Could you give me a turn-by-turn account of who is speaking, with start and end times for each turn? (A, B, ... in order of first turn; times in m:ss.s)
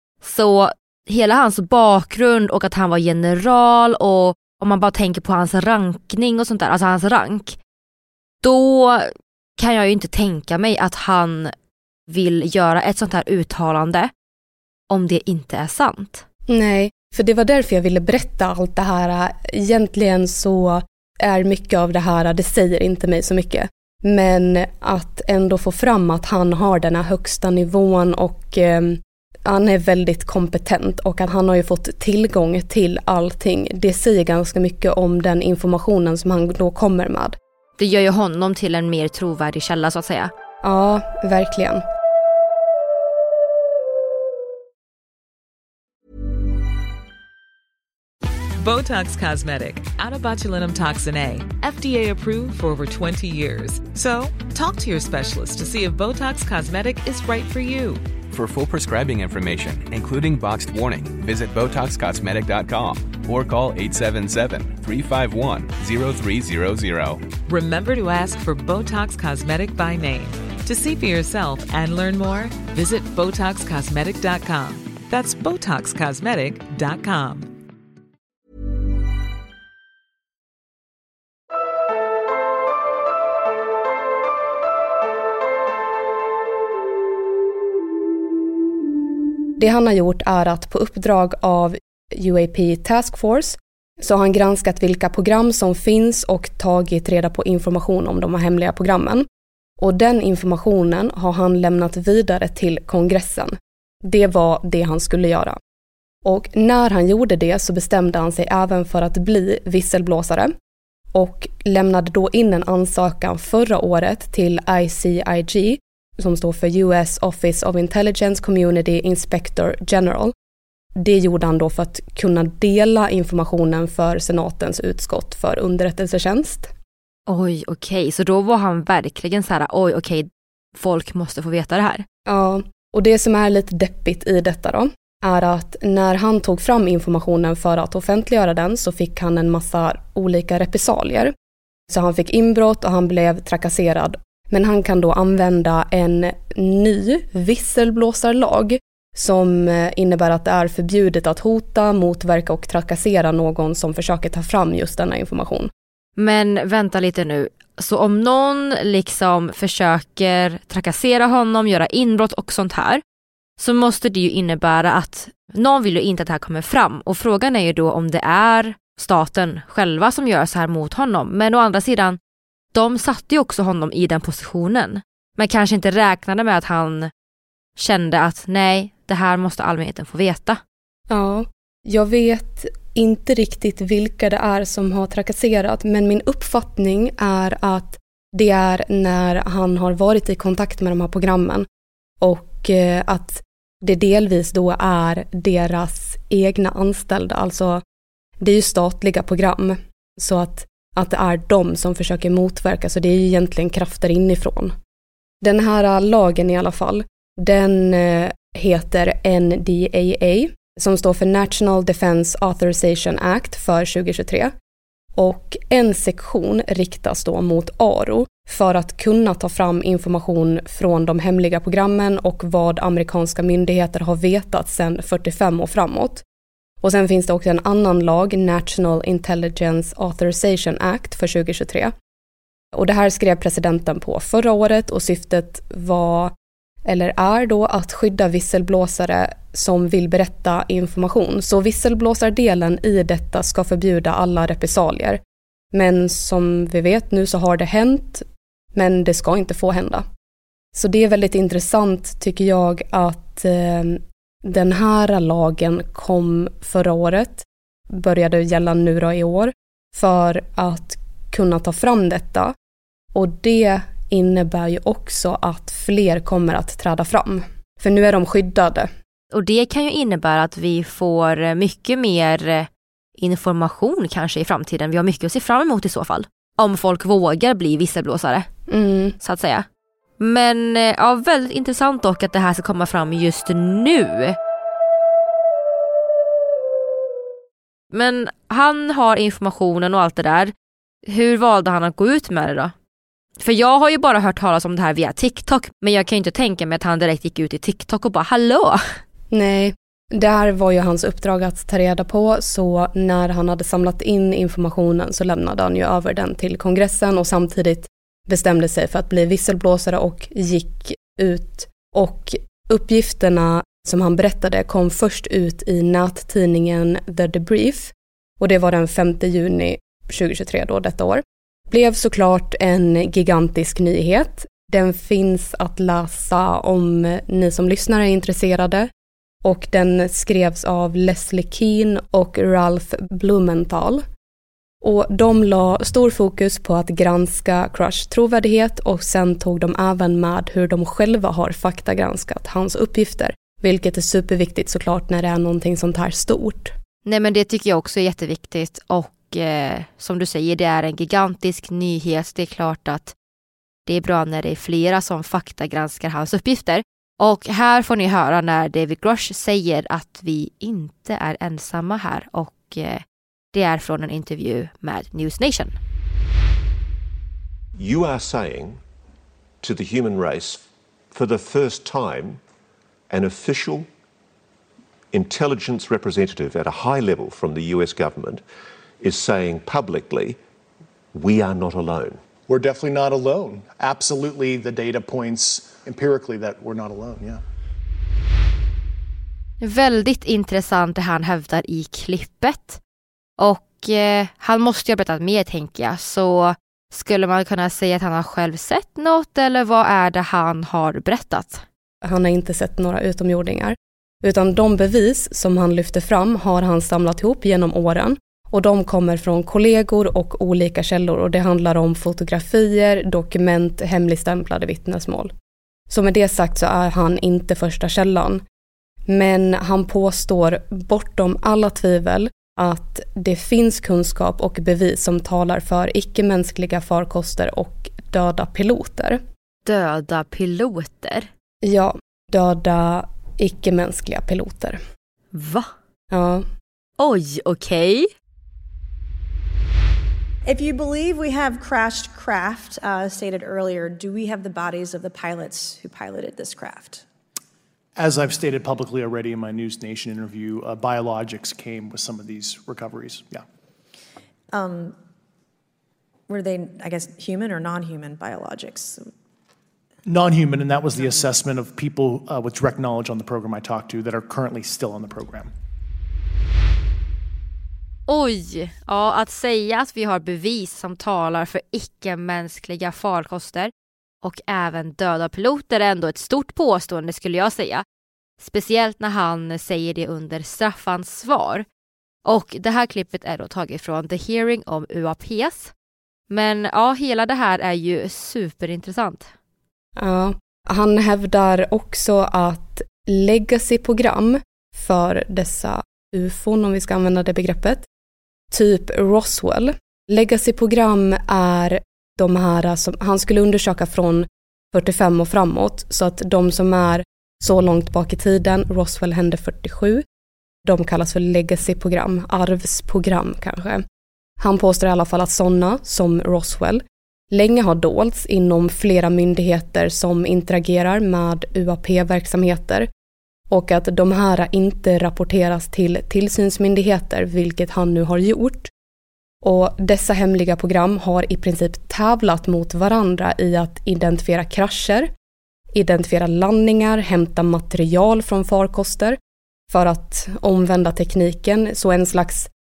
0:00.2-0:07.6 A
0:08.4-0:11.5 A
0:12.1-0:14.1 A
0:14.9-0:16.2 A
0:16.5-0:37.4 B
0:37.8-0:40.3 A
0:40.6-0:41.8 B
0:48.6-0:58.0 C
0:58.3-1:07.3 D
1:07.5-1:17.5 C
1:29.6-1:39.2 B
1:39.8-1:45.6 B
1:46.2-1:50.5 B
1:51.1-2:00.3 B
2:00.9-2:06.7 B
2:07.3-2:12.0 A
2:12.2-2:21.3 B
2:21.9-2:35.7 B
2:36.2-2:43.0 A
2:43.6-2:52.2 A
2:52.7-2:57.1 A
2:57.8-3:00.6 A
3:01.1-3:11.6 B
3:12.2-3:17.8 B
3:18.4-3:24.7 B
3:25.4-3:34.5 B
3:35.2-3:46.2 B
3:46.8-3:51.9 B
3:52.7-3:56.3 B
3:56.8-4:05.2 B
4:05.7-4:10.0 B
4:10.7-4:22.5 B
4:23.1-4:28.9 B
4:29.3-4:38.5 A
4:38.7-4:39.2 B
4:39.2-4:39.6 A
4:40.2-4:44.4 A
4:47.9-4:50.5 A
4:51.0-4:52.7 A
4:53.4-4:58.8 A
4:59.3-5:28.9 B
5:29.4-5:34.0 B
5:34.8-5:46.7 B
5:47.0-5:53.1 A
5:53.8-6:05.8 A
6:07.8-6:08.8 E
6:09.6-6:12.4 E
6:13.1-6:13.9 E
6:15.1-6:18.4 E
6:19.0-6:20.4 E
6:21.1-6:22.2 E
6:22.5-6:27.4 F
6:29.6-6:32.8 A
6:33.4-6:41.6 A
6:42.0-6:55.3 B
6:55.9-6:58.4 B
6:59.1-7:09.2 B
7:09.6-7:11.3 A
7:11.6-7:14.8 B
7:15.3-7:15.7 A
7:16.1-7:16.4 B
7:17.0-7:18.1 A
7:20.4-7:27.0 G
7:28.0-7:33.4 F
7:34.5-7:35.0 G
7:36.3-7:39.1 G
7:40.0-7:45.5 F
7:48.1-7:53.7 A
7:54.2-7:57.8 A
7:58.4-8:01.6 A
8:02.2-8:05.7 A
8:06.3-8:09.3 A
8:10.0-8:17.8 B
8:18.5-8:30.0 B
8:30.6-8:33.8 B
8:34.4-8:42.9 B
8:43.5-8:48.7 B
8:49.4-8:55.1 B
8:55.7-8:59.2 B
8:59.7-9:02.5 B